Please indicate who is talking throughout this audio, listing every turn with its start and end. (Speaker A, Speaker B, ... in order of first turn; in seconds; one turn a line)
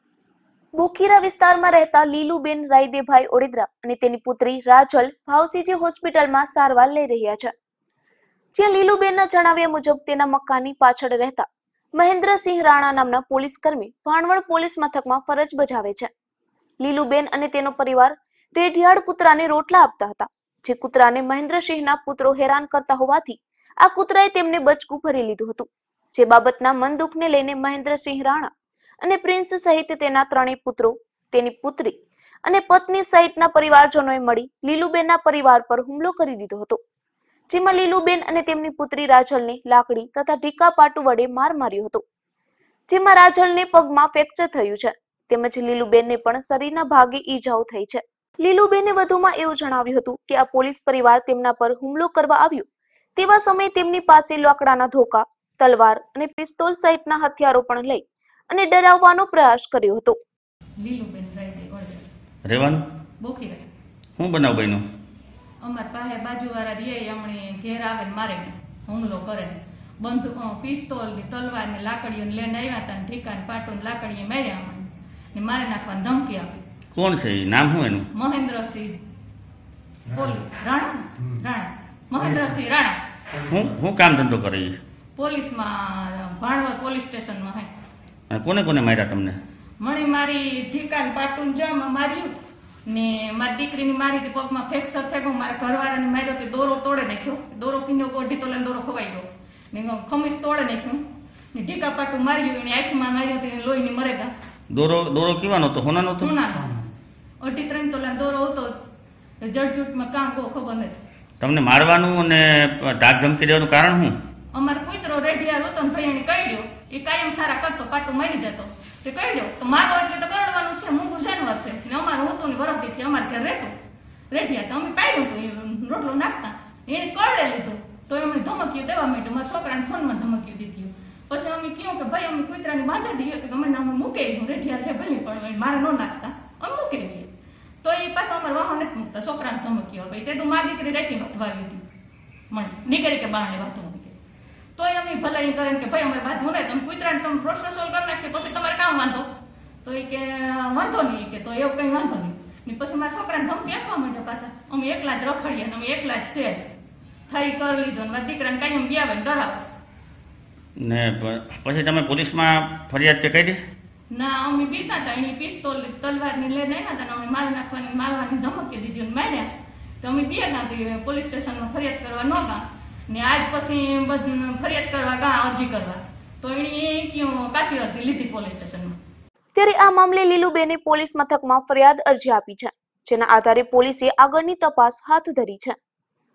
Speaker A: 0.8-7.5
Speaker A: 8.5-16.1
Speaker A: 16.8-28.5
Speaker A: 29.0-36.8
Speaker A: 37.5-42.0
Speaker A: 42.9-60.2
Speaker B: 60.8-62.0
Speaker C: 62.5-62.8
Speaker B: 63.2-63.7
Speaker C: 64.2-64.8
Speaker B: 65.6-76.6
Speaker C: 76.9-78.0
Speaker B: 78.1-79.0
Speaker B: 80.1-83.0
Speaker C: 83.5-84.8
Speaker B: 85.2-87.7
Speaker C: 88.3-89.4
Speaker B: 89.8-92.3
Speaker B: 92.9-104.3
Speaker C: 104.7-106.3
Speaker B: 106.2-106.7
Speaker B: 107.4-108.8
Speaker B: 109.4-111.0
Speaker C: 111.4-114.2
Speaker B: 114.5-123.7
Speaker B: 124.3-137.3
Speaker B: 137.8-141.8
Speaker B: 142.5-144.1
Speaker B: 144.8-149.3
Speaker B: 149.8-156.7
Speaker B: 157.3-159.7
Speaker C: 160.8-163.6
Speaker B: 164.1-169.5
Speaker B: 170.0-178.9
Speaker A: 179.6-185.8